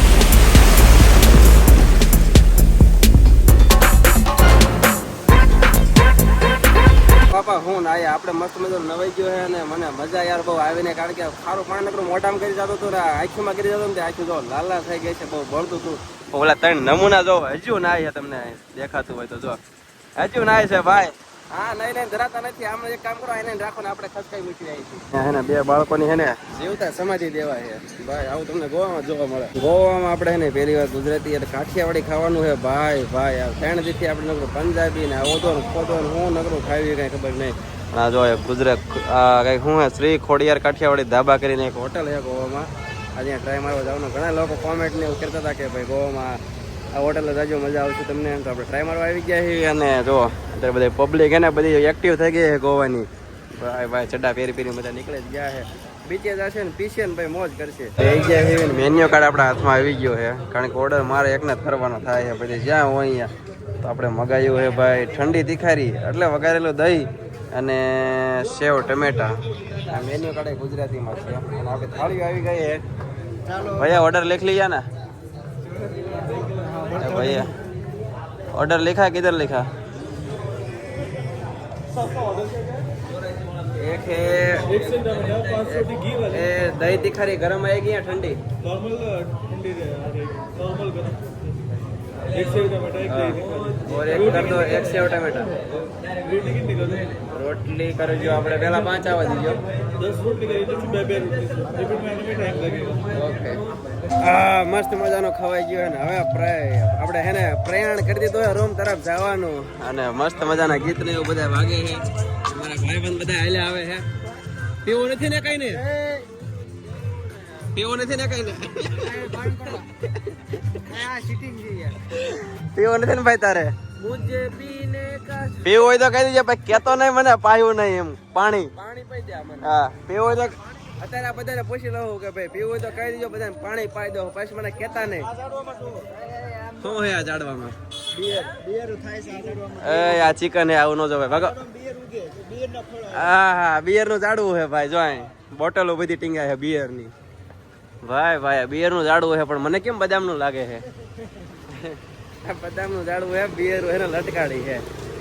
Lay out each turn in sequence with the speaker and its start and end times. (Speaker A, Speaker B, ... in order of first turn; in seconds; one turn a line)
Speaker A: 7.3-19.6
Speaker A: 20.2-46.4
Speaker A: 46.9-72.8
Speaker B: 73.5-73.8
Speaker A: 73.7-74.8
Speaker B: 76.5-77.5
Speaker A: 77.0-77.5
Speaker A: 78.5-79.7
Speaker A: 83.7-88.4
Speaker A: 92.4-95.6
Speaker A: 96.7-99.6
Speaker C: 100.1-103.0
Speaker A: 103.1-114.1
Speaker A: 114.8-116.0
Speaker A: 117.7-120.9
Speaker B: 120.9-121.4
Speaker A: 121.9-123.8
Speaker D: 124.0-125.4
Speaker C: 124.6-125.4
Speaker A: 125.6-128.8
Speaker D: 128.8-129.4
Speaker A: 129.6-135.3
Speaker B: 135.4-136.2
Speaker A: 136.3-137.8
Speaker B: 138.1-140.3
Speaker A: 139.7-141.6
Speaker B: 141.5-143.2
Speaker A: 143.0-147.1
Speaker A: 148.0-150.9
Speaker A: 151.6-154.9